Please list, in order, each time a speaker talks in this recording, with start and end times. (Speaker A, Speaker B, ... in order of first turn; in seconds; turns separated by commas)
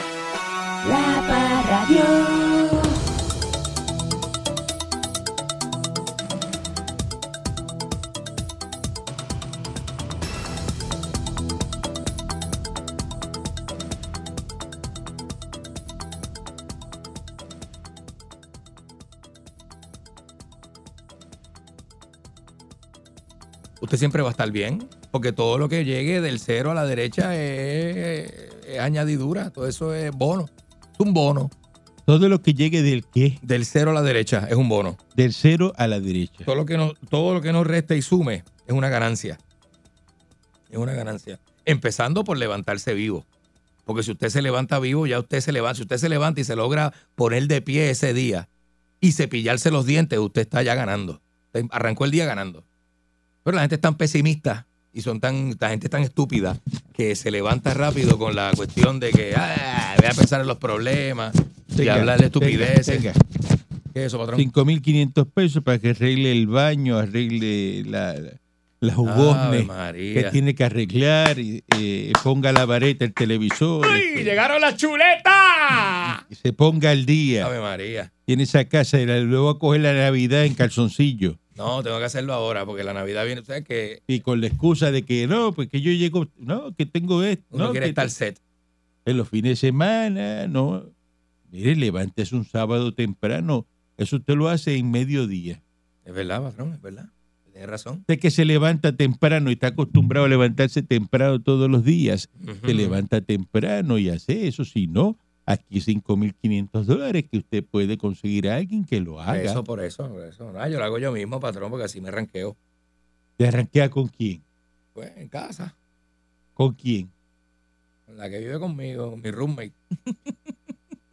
Speaker A: 0.8-2.9, Speaker B: 23.8-31.5, Speaker C: 32.1-33.4, Speaker B: 33.4-35.0, Speaker C: 35.1-36.5, Speaker B: 36.4-39.4, Speaker B: 40.7-43.2, Speaker B: 43.9-48.5, Speaker B: 49.0-52.6, Speaker B: 53.4-63.1, Speaker C: 61.7-63.2, Speaker B: 63.9-64.5, Speaker C: 64.3-74.3, Speaker B: 69.0-70.4, Speaker B: 73.8-76.2, Speaker C: 76.3-77.5, Speaker B: 77.4-78.1, Speaker C: 78.3-81.4, Speaker B: 81.5-84.0, Speaker C: 84.1-88.1, Speaker B: 87.5-88.4, Speaker C: 89.0-90.9, Speaker C: 91.5-95.6, Speaker B: 96.0-98.0, Speaker C: 98.1-109.6, Speaker B: 102.4-103.0, Speaker B: 109.3-112.5, Speaker C: 113.4-114.4, Speaker B: 115.0-115.7, Speaker C: 116.6-117.1, Speaker B: 118.1-119.7